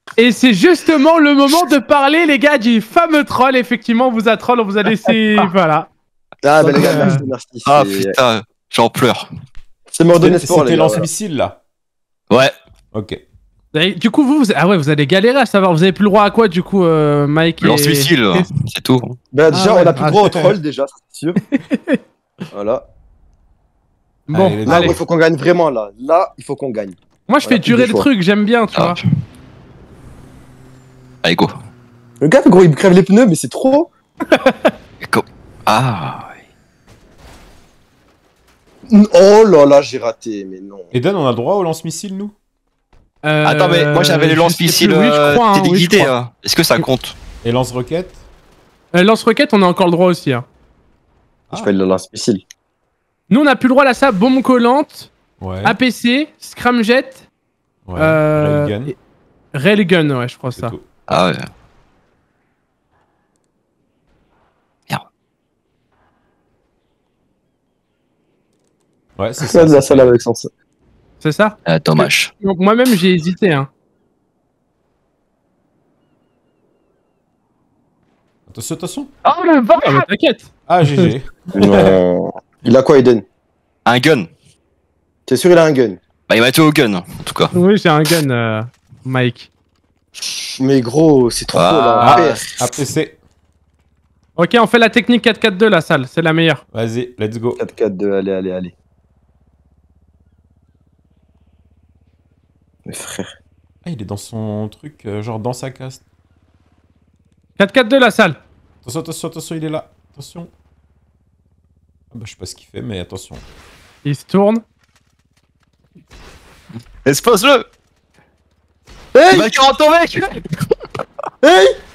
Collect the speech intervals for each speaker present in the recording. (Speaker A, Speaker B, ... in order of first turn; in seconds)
Speaker A: 0.2-5.9, 6.6-7.2, 13.7-18.5, 19.5-20.3, 21.5-22.0, 24.3-24.9, 27.3-29.0, 34.2-34.7, 43.2-46.1, 48.9-50.4, 53.3-55.1, 55.6-57.2, 58.0-58.9, 59.5-60.7, 71.2-73.7, 79.8-81.9, 87.5-89.5, 94.3-96.6, 107.6-108.4, 114.0-114.6
Speaker B: 6.4-8.2, 9.9-11.1, 19.3-21.4, 22.5-22.9, 24.6-28.1, 32.2-33.9, 38.9-40.9, 51.5-52.4, 69.4-70.5, 81.5-83.2, 85.3-86.0, 90.2-92.4, 97.6-98.7, 102.9-103.3, 119.1-119.5, 121.4-121.8
Speaker C: 6.8-7.2, 10.1-11.6, 12.9-13.2, 24.3-25.0, 40.9-42.3, 47.4-48.2, 55.4-55.8, 57.9-58.9, 60.5-60.9, 69.2-70.2, 78.5-79.1, 80.7-81.5, 92.0-93.2, 96.7-97.6, 103.8-106.0, 108.8-110.5, 112.1-113.4
Speaker D: 7.7-9.3, 17.6-19.1, 28.7-29.0, 31.2-31.5, 35.0-36.4, 43.4-47.1, 61.1-61.4, 71.7-72.3, 79.2-80.1, 83.8-84.3, 86.3-87.5, 91.5-92.5, 117.0-117.7, 119.3-120.4